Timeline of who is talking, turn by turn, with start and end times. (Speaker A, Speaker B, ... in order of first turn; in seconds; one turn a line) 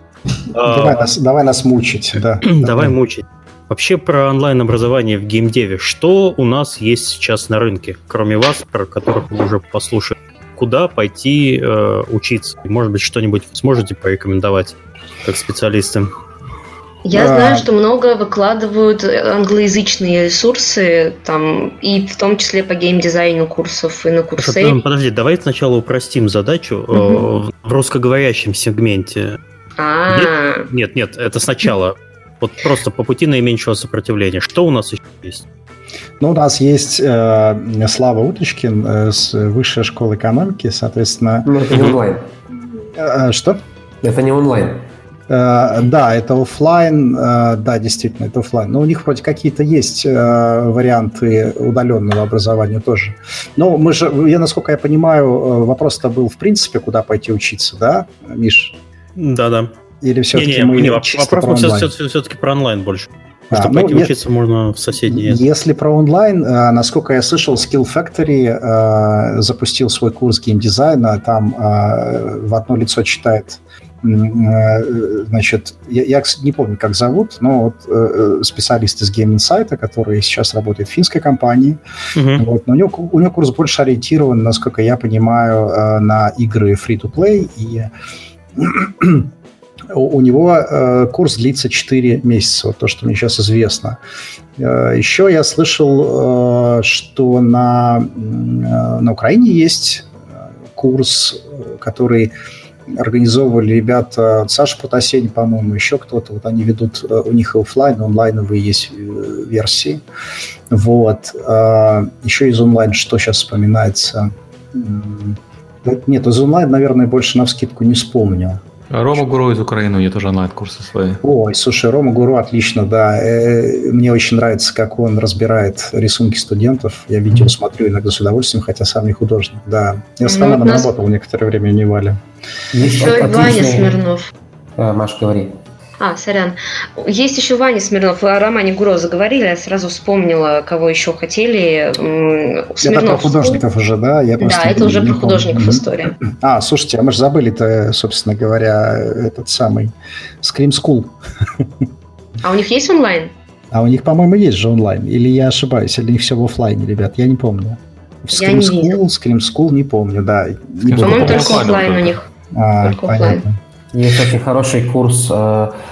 Speaker A: 0.5-1.0
Speaker B: 0.6-2.9
Speaker A: 2.4-16.1
Speaker C: 17.0-24.8
Speaker B: 17.1-17.6
Speaker A: 24.4-29.4
Speaker C: 26.9-27.2
Speaker C: 29.8-30.7
Speaker A: 30.1-35.4
Speaker B: 36.2-41.6
Speaker D: 41.5-42.3
Speaker E: 41.7-42.0
Speaker B: 42.9-43.6
Speaker D: 44.0-44.9
Speaker B: 45.3-58.8
Speaker A: 59.1-59.7
Speaker B: 60.0-61.9
Speaker A: 60.3-65.4
Speaker B: 63.5-64.2
Speaker B: 65.0-81.8
Speaker A: 82.2-82.5
Speaker B: 82.4-87.9
Speaker B: 88.5-89.3
Speaker B: 89.9-94.0
Speaker B: 94.6-100.1
Speaker B: 100.7-102.3
Speaker B: 102.9-110.0
Speaker B: 110.7-118.6
Speaker E: 118.9-121.2
Speaker B: 121.2-132.2
Speaker C: 130.2-130.9
Speaker D: 132.7-133.9
Speaker C: 132.8-134.3
Speaker D: 134.8-135.6
Speaker C: 136.0-143.6
Speaker B: 142.8-151.7
Speaker C: 144.4-146.2
Speaker C: 152.4-153.3
Speaker B: 153.7-161.7
Speaker C: 158.3-159.0
Speaker E: 160.8-162.2
Speaker C: 161.0-162.3
Speaker B: 162.5-163.6
Speaker C: 162.8-163.4
Speaker D: 163.9-165.7